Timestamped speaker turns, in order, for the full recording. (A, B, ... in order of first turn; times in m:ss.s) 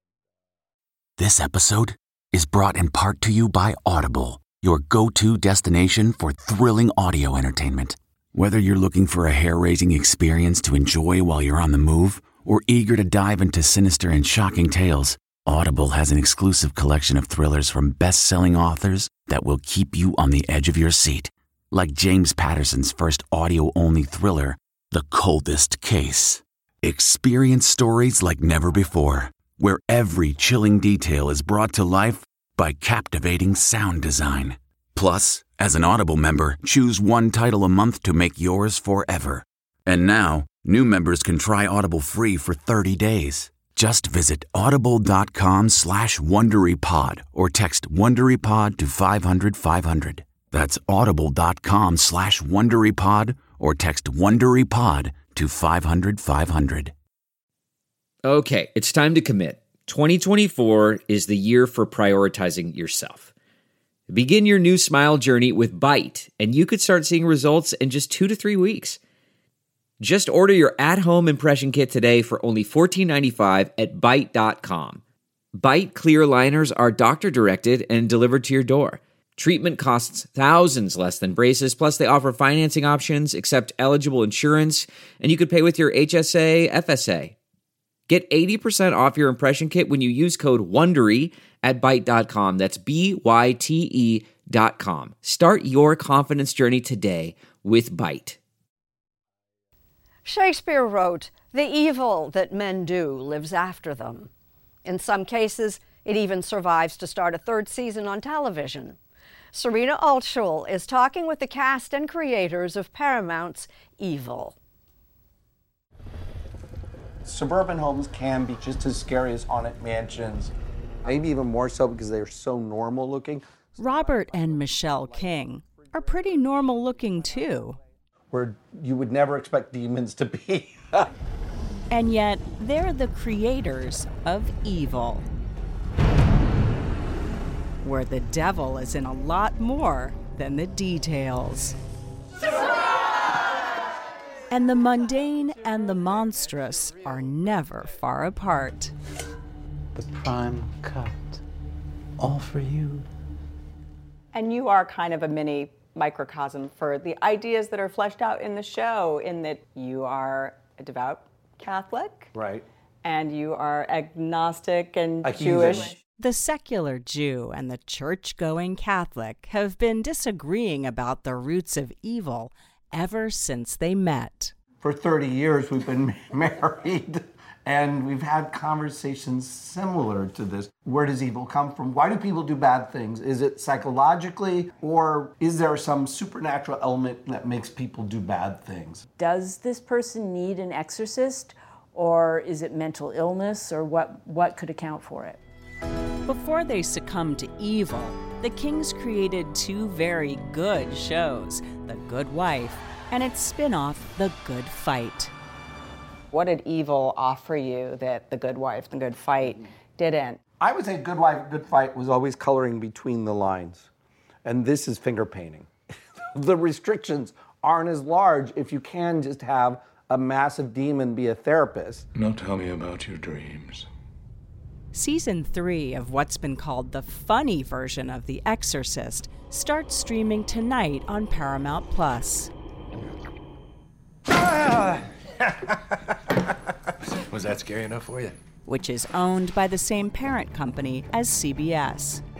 0:01.2-0:56.9 A
0:58.2-1:03.3 B
1:04.1-1:09.0 B
1:10.0-1:15.0 B
1:15.5-1:27.4 B
1:28.1-1:38.4 B
1:40.2-1:44.3 C
1:44.8-1:49.0 C
1:49.5-1:54.6 C
1:57.2-2:00.5 D
2:01.0-2:03.4 D
2:03.8-2:07.8 E
2:08.3-2:11.1 D
2:11.9-2:15.2 E
2:17.8-2:21.8 E
2:24.5-2:28.9 E
2:34.3-2:42.3 F
2:43.0-2:46.0 F
2:45.3-2:45.9 D
2:46.2-2:54.5 E
2:54.8-3:09.0 D
3:09.2-3:15.4 G
3:16.2-3:25.3 E
3:26.3-3:30.4 F
3:30.6-3:33.9 D
3:34.4-3:35.7 D
3:36.3-3:42.0 D
3:42.2-3:43.8 H
3:44.9-3:52.5 E
3:57.3-3:58.2 H
3:58.6-4:02.2 E